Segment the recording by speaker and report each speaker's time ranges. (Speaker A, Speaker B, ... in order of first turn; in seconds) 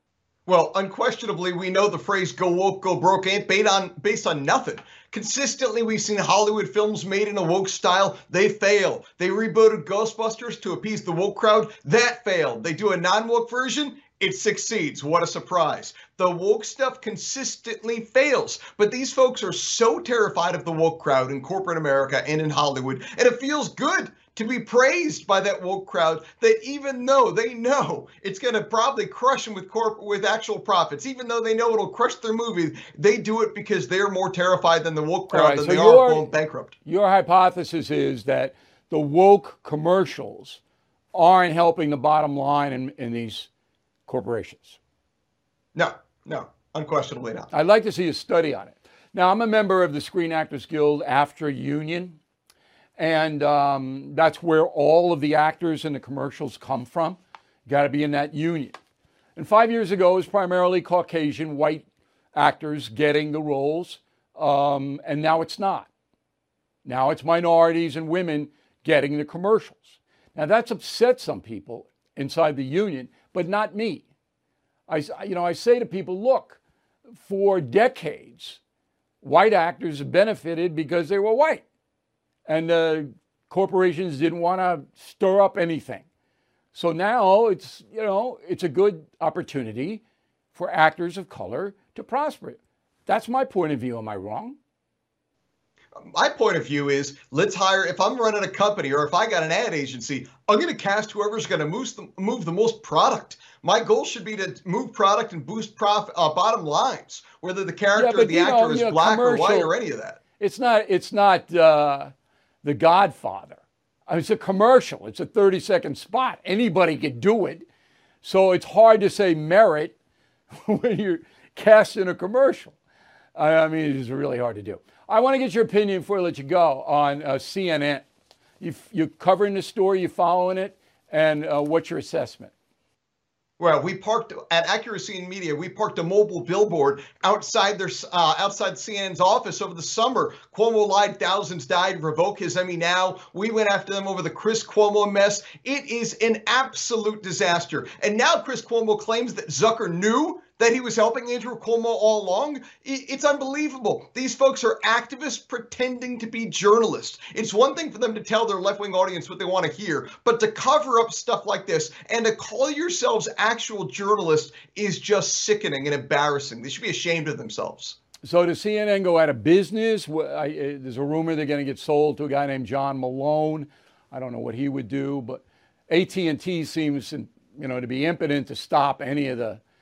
Speaker A: 0.5-36.7, 45.7-47.5, 96.0-110.2, 133.6-168.0
Speaker B: 35.3-36.3, 36.9-40.6, 41.1-43.5, 44.1-44.8, 47.5-52.2, 53.0-58.8, 59.4-65.9, 66.8-74.1, 74.9-76.6, 77.1-78.6, 79.2-81.6, 82.5-86.1, 86.7-90.0, 90.5-94.6, 107.9-109.7, 110.4-112.1, 112.6-117.7, 118.2-119.9, 120.5-122.8, 123.3-128.1, 128.6-132.5, 168.2-179.6